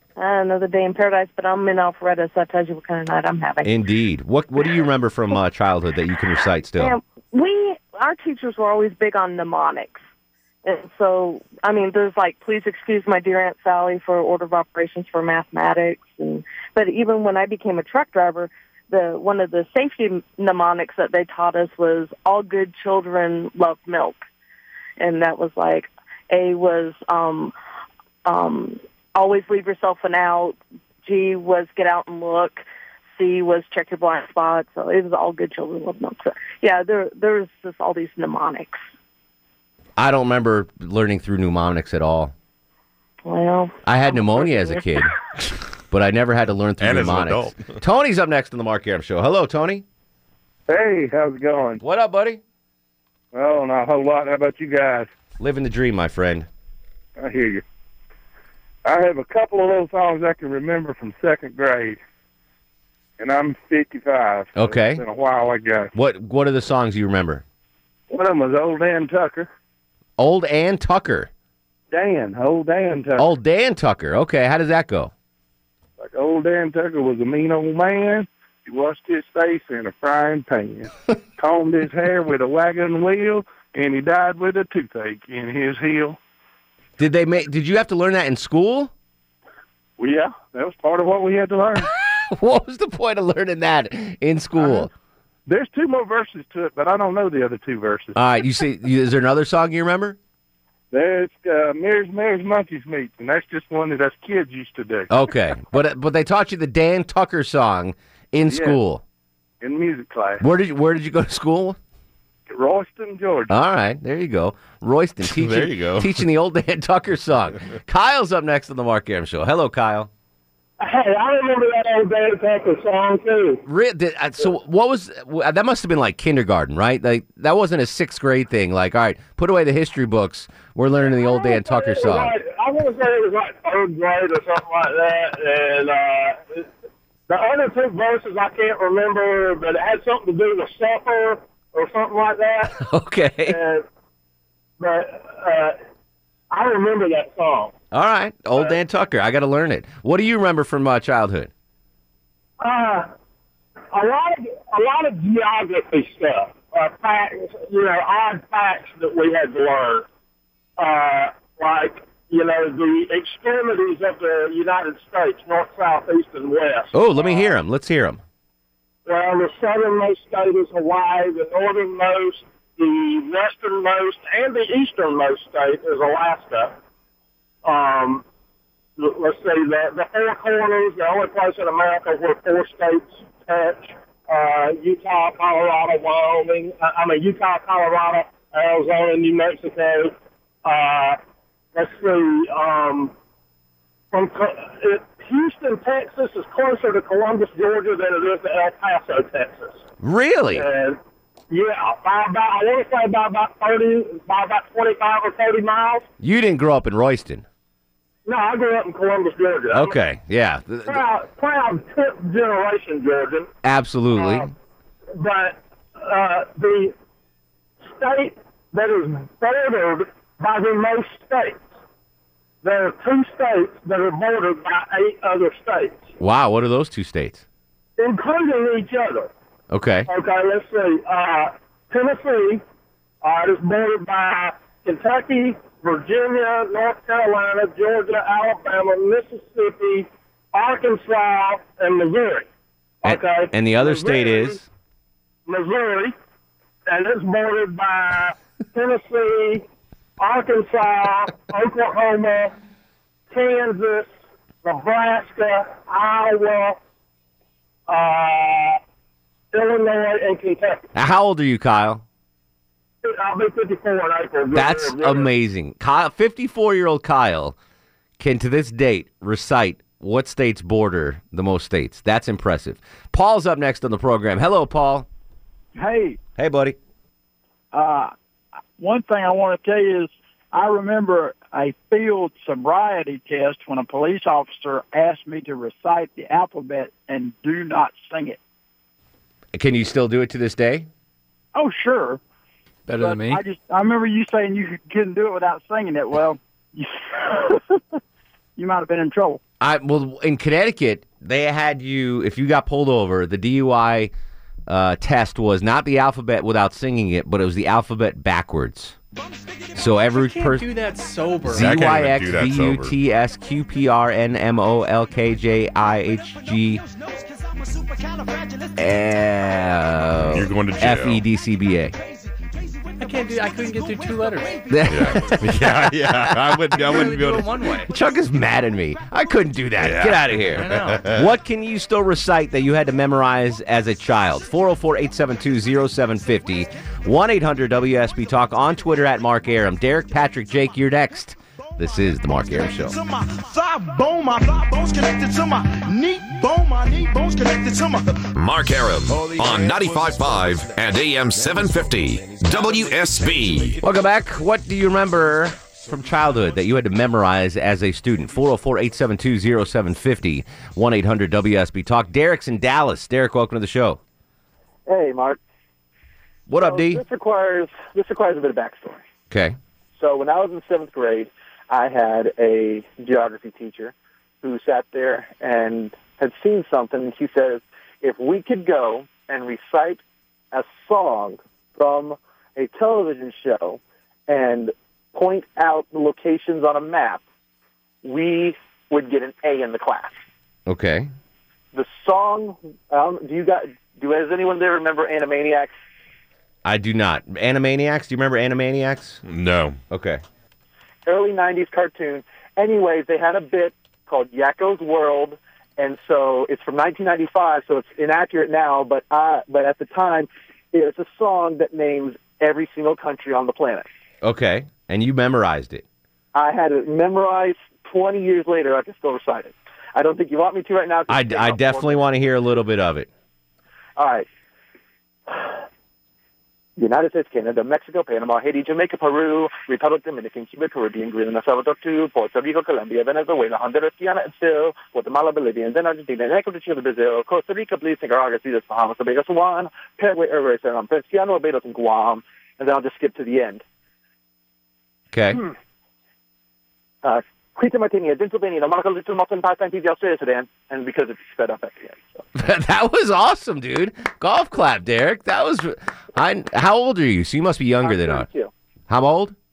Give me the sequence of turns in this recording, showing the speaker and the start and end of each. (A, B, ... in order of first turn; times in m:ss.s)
0:00.2-0:03.7 A
0:03.6-0:07.0 B
0:06.8-0:10.0 A
0:10.6-0:24.2 A
0:25.0-0:27.5 A
0:28.2-0:32.6 A
0:33.2-0:38.8 A
0:40.0-0:42.3 B
0:43.2-0:43.7 A
0:43.8-0:45.1 B
0:44.4-0:44.7 C
0:45.9-0:49.8 B
0:46.8-0:47.8 D
0:50.7-0:51.8 C
0:51.8-0:52.4 B
0:53.3-0:55.1 C
0:55.4-0:56.5 B
0:57.2-0:57.6 C
0:58.8-1:02.0 C
1:03.2-1:05.9 C
1:04.6-1:05.0 B
1:05.9-1:07.4 B
1:08.1-1:09.5 C
1:10.2-1:11.3 B
1:11.9-1:13.3 C
1:13.2-1:15.1 B
1:16.0-1:26.2 C
1:27.0-1:28.9 B
1:30.0-1:31.9 C
1:32.3-1:34.9 B
1:34.6-1:34.9 C
1:35.5-1:38.2 C
1:38.2-1:40.2 B
1:40.9-1:45.1 C
1:45.1-1:49.0 B
1:48.5-1:48.8 C
1:49.6-1:50.4 C
1:50.4-1:51.8 B
1:52.5-1:53.5 C
1:53.5-2:00.1 B
1:55.2-1:56.2 D
2:00.8-2:03.6 E
2:03.6-2:12.3 B
2:11.1-2:16.7 E
2:17.3-2:22.8 E
2:22.7-2:23.6 B
2:23.4-2:23.8 E
2:24.8-2:25.8 E
2:26.5-2:27.7 E
2:27.9-2:31.5 B
2:32.6-2:33.1 E
2:33.9-2:40.1 E
2:40.8-2:47.5 E
2:46.9-2:48.2 B
2:49.0-2:56.8 E
2:57.6-2:58.2 E
2:59.0-3:11.2 E
3:11.7-3:13.1 E
3:14.1-3:19.8 E
3:20.0-3:20.7 B
3:20.5-3:21.0 E
3:21.5-3:26.0 E
3:26.2-3:27.4 B
3:28.2-3:30.0 E
3:29.7-3:31.0 B
3:30.8-3:33.5 E
3:33.6-3:34.5 B
3:34.1-3:34.5 E
3:35.2-3:36.9 E
3:37.8-3:41.6 E
3:42.6-3:46.0 E
3:46.2-3:47.4 B
3:48.0-3:49.3 E
3:49.7-3:50.1 B
3:50.1-3:52.6 E
3:53.2-4:02.5 E
4:03.0-4:04.6 E
4:03.0-4:04.6 B
4:05.5-4:06.1 E
4:06.9-4:09.6 E
4:10.2-4:12.5 E
4:13.3-4:14.1 E
4:14.6-4:16.8 E
4:17.9-4:18.8 E
4:19.5-4:20.9 E
4:20.9-4:22.0 B
4:23.0-4:25.3 E
4:24.5-4:27.5 B
4:28.2-4:35.0 B
4:35.7-4:36.2 F
4:36.4-4:36.8 B
4:37.7-4:38.1 F
4:38.8-4:48.4 F
4:49.5-4:50.9 B
4:51.5-4:52.2 F
4:52.9-4:53.4 G
4:53.0-4:57.8 F
4:58.6-4:59.4 F
4:59.6-5:04.1 B
5:04.7-5:09.0 B
5:09.7-5:10.7 B
5:10.1-5:11.8 G
5:11.4-5:16.8 B
5:11.5-5:12.9 D
5:17.2-5:18.7 H
5:18.8-5:21.9 B
5:20.3-5:21.2 D
5:23.0-5:24.6 G
5:24.7-5:26.6 B
5:24.8-5:27.5 D
5:26.7-5:27.9 G
5:27.9-5:42.9 B
5:29.8-5:31.3 D
5:30.5-5:31.1 G
5:42.5-5:48.3 H
5:48.3-5:53.8 I
5:49.1-5:49.6 H
5:53.8-6:04.0 B
6:04.9-6:05.4 J
6:06.5-6:07.0 B
6:06.5-6:09.0 J
6:09.3-6:09.6 B
6:09.9-6:20.0 J
6:20.5-6:27.2 J
6:28.0-6:30.2 J
6:30.7-6:31.1 B
6:31.7-6:35.7 J
6:36.6-6:39.2 B
6:39.2-6:39.8 D
6:39.9-6:40.2 B
6:41.0-6:53.8 J
6:54.2-6:55.8 B
6:56.3-7:02.1 J
7:01.1-7:03.1 B
7:04.0-7:04.2 J
7:05.3-7:05.6 J
7:06.8-7:23.6 J
7:25.1-7:25.4 B
7:27.0-7:32.2 J
7:32.3-7:38.3 B
7:37.8-7:38.5 J
7:38.9-7:39.3 B